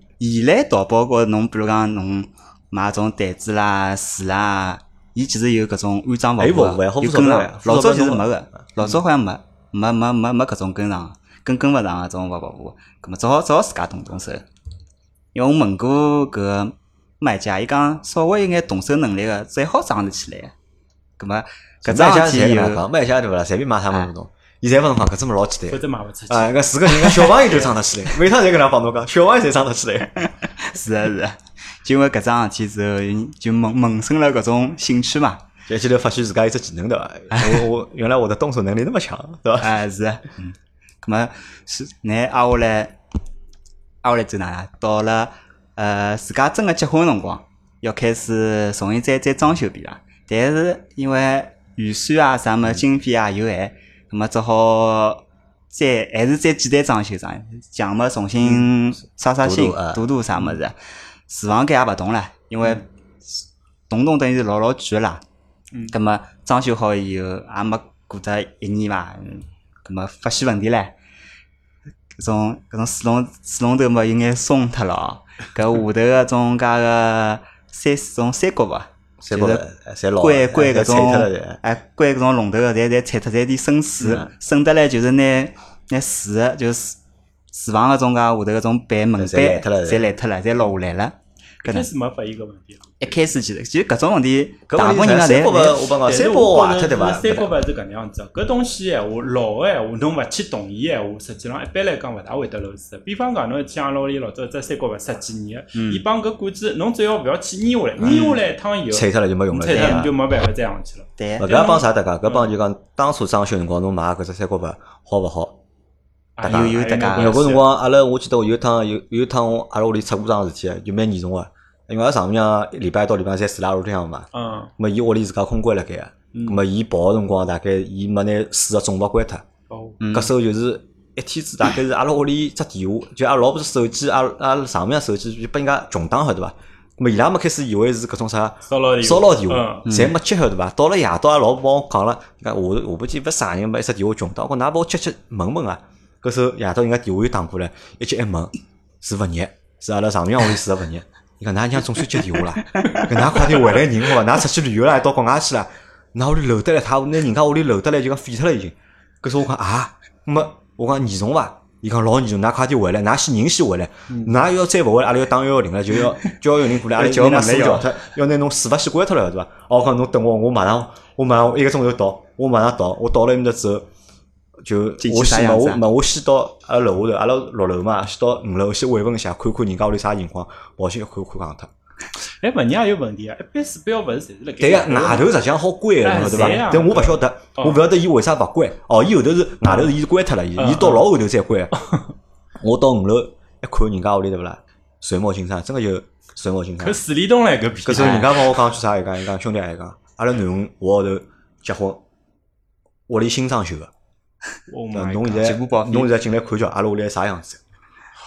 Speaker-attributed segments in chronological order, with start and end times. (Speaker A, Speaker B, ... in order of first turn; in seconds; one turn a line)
Speaker A: 0.2-14.5
Speaker B: 6.4-8.3
Speaker A: 15.3-20.5
Speaker A: 21.2-22.8
Speaker B: 21.9-30.2
Speaker C: 25.7-26.5
Speaker A: 27.1-27.4
Speaker C: 27.5-27.7
Speaker A: 30.2-35.4
Speaker B: 35.7-39.7
Speaker A: 39.6-43.0
Speaker A: 44.0-60.8
Speaker B: 59.4-60.0
Speaker A: 61.3-65.2
Speaker A: 65.9-71.0
Speaker A: 72.2-79.6
Speaker B: 79.2-81.6
Speaker A: 80.2-87.0
Speaker A: 87.5-91.9
Speaker B: 89.2-90.1
Speaker C: 91.6-93.0
Speaker A: 93.0-95.8
Speaker B: 94.7-97.5
Speaker C: 96.0-112.5
Speaker A: 105.8-106.0
Speaker B: 108.0-110.1
Speaker A: 108.0-108.4
Speaker A: 109.7-110.1
Speaker A: 111.2-111.4
Speaker B: 111.4-115.6
Speaker C: 116.4-117.7
Speaker B: 116.4-129.4
Speaker A: 116.5-117.4
Speaker C: 124.3-124.7
Speaker C: 126.3-126.6
Speaker C: 129.7-130.0
Speaker A: 130.0-130.3
Speaker B: 130.1-173.9
Speaker C: 138.7-139.9
Speaker A: 139.9-140.1
Speaker A: 166.9-168.0
Speaker B: 174.7-181.7
Speaker A: 175.0-175.8
Speaker C: 182.4-185.3
Speaker B: 184.6-191.8
Speaker C: 186.0-187.8
Speaker A: 186.2-186.6
Speaker C: 189.7-190.0
Speaker C: 190.6-191.1
Speaker C: 191.7-192.1
Speaker B: 192.6-197.0
Speaker C: 196.8-198.4
Speaker B: 197.8-202.0
Speaker A: 197.9-198.3
Speaker B: 203.1-203.9
Speaker C: 204.7-205.6
Speaker B: 204.9-207.6
Speaker A: 205.4-206.1